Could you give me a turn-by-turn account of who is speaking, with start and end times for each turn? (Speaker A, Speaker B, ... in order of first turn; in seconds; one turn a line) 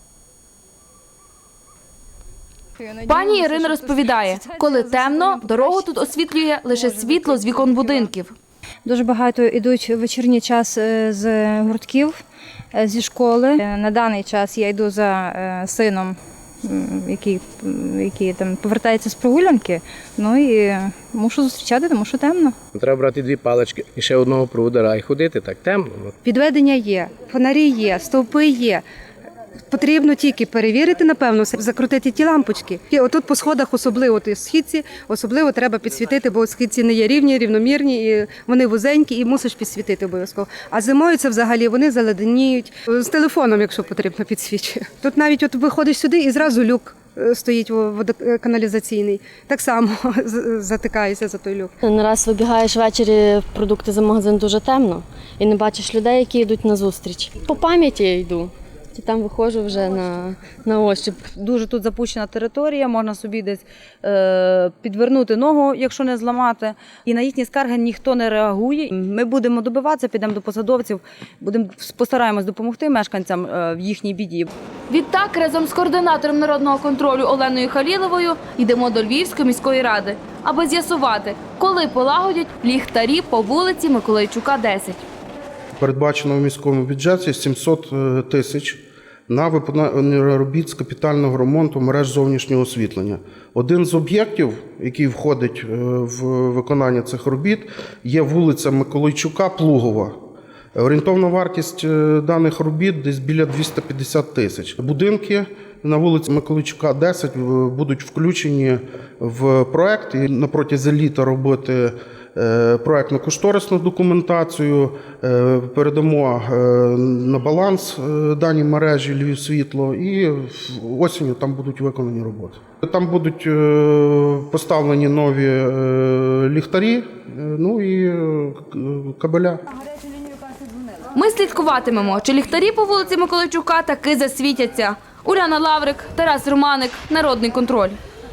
Speaker A: 2.8-6.0
Speaker B: 3.1-8.3
Speaker A: 6.9-7.8
Speaker A: 8.8-12.2
Speaker A: 12.7-22.6
Speaker C: 22.7-26.1
Speaker D: 26.2-28.8
Speaker D: 29.7-51.7
Speaker E: 51.9-61.2
Speaker F: 61.2-74.5
Speaker B: 74.9-85.0
Speaker G: 85.8-100.2
Speaker G: 100.8-129.6
Speaker B: 131.1-138.0